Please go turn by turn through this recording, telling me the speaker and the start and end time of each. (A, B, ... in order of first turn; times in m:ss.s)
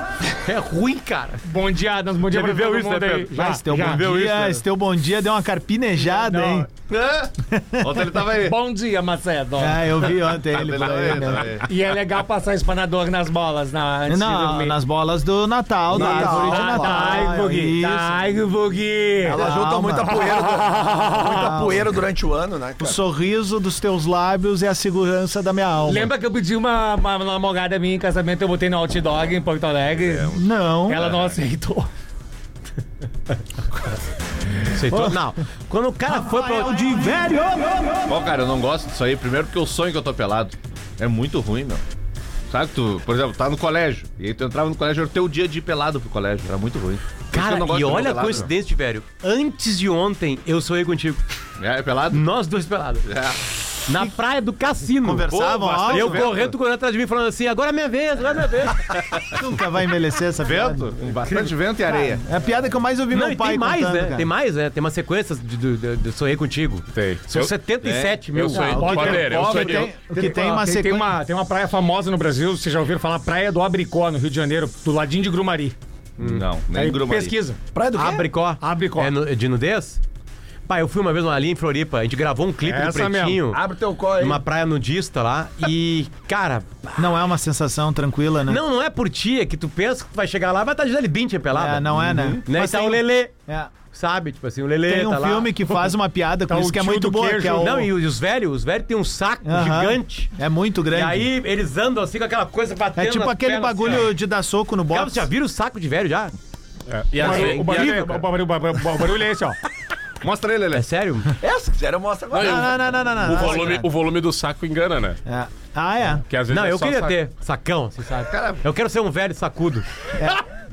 0:00.4-0:01.4 A
0:01.4-0:04.1 B
0:02.3-0:04.6 A
0:03.4-0:06.7 C
0:06.1-0:06.6 B
0:06.9-0:08.6 D
0:07.5-0:08.2 C
0:08.4-0:10.0 B
0:09.6-0:11.6 C
0:10.5-0:11.7 D
0:11.6-0:14.8 B
0:14.1-0:18.2 C
0:15.9-0:17.0 E
0:16.0-0:19.4 B
0:19.2-0:23.0 E
0:19.4-0:20.4 C
0:20.1-0:21.5 B
0:21.2-0:22.0 C
0:22.8-0:26.1 C
0:25.9-0:31.9 B
0:30.0-0:30.4 D
0:30.3-0:31.0 C
0:31.0-0:31.4 D
0:34.7-0:37.1 A
0:36.1-0:38.1 C
0:38.1-0:41.8 D
0:42.5-0:48.5 D
0:47.3-0:51.2 A
0:51.6-0:52.2 D
0:52.1-0:53.1 A
0:53.1-0:53.4 D
0:53.9-0:55.3 A
0:55.0-0:56.3 C
0:55.3-0:56.5 D
0:55.8-0:58.9 A
0:59.2-1:04.3 C
1:00.4-1:02.2 D
1:03.1-1:09.2 A
1:07.0-1:07.5 F
1:07.8-1:08.1 D
1:08.3-1:09.9 F
1:08.6-1:11.1 C
1:08.7-1:15.8 B
1:16.2-1:16.4 A
1:16.2-1:17.4 D
1:16.7-1:17.6 B
1:17.7-1:18.3 E
1:18.0-1:20.0 A
1:18.6-1:19.1 B
1:20.7-1:23.6 A
1:22.6-1:23.5 B
1:23.5-1:24.4 E
1:24.2-1:27.2 A
1:27.0-1:28.6 C
1:28.5-1:31.9 A
1:31.5-1:33.7 C
1:32.4-1:33.3 A
1:33.9-1:35.9 A
1:34.9-1:37.9 C
1:36.5-1:37.7 B
1:37.5-1:40.3 A
1:39.5-1:41.3 C
1:40.9-1:44.1 A
1:43.0-1:45.3 C
1:44.9-1:46.3 A
1:46.9-1:48.2 F
1:47.2-1:49.6 B
1:47.2-1:48.2 A
1:50.2-1:50.8 D
1:50.7-1:51.4 A
1:51.4-1:52.7 E
1:52.3-1:55.2 F
1:52.4-1:53.9 C
1:55.3-1:56.2 C
1:56.3-1:57.2 F
1:56.5-1:59.9 A
1:58.3-1:58.6 D
2:00.2-2:00.4 C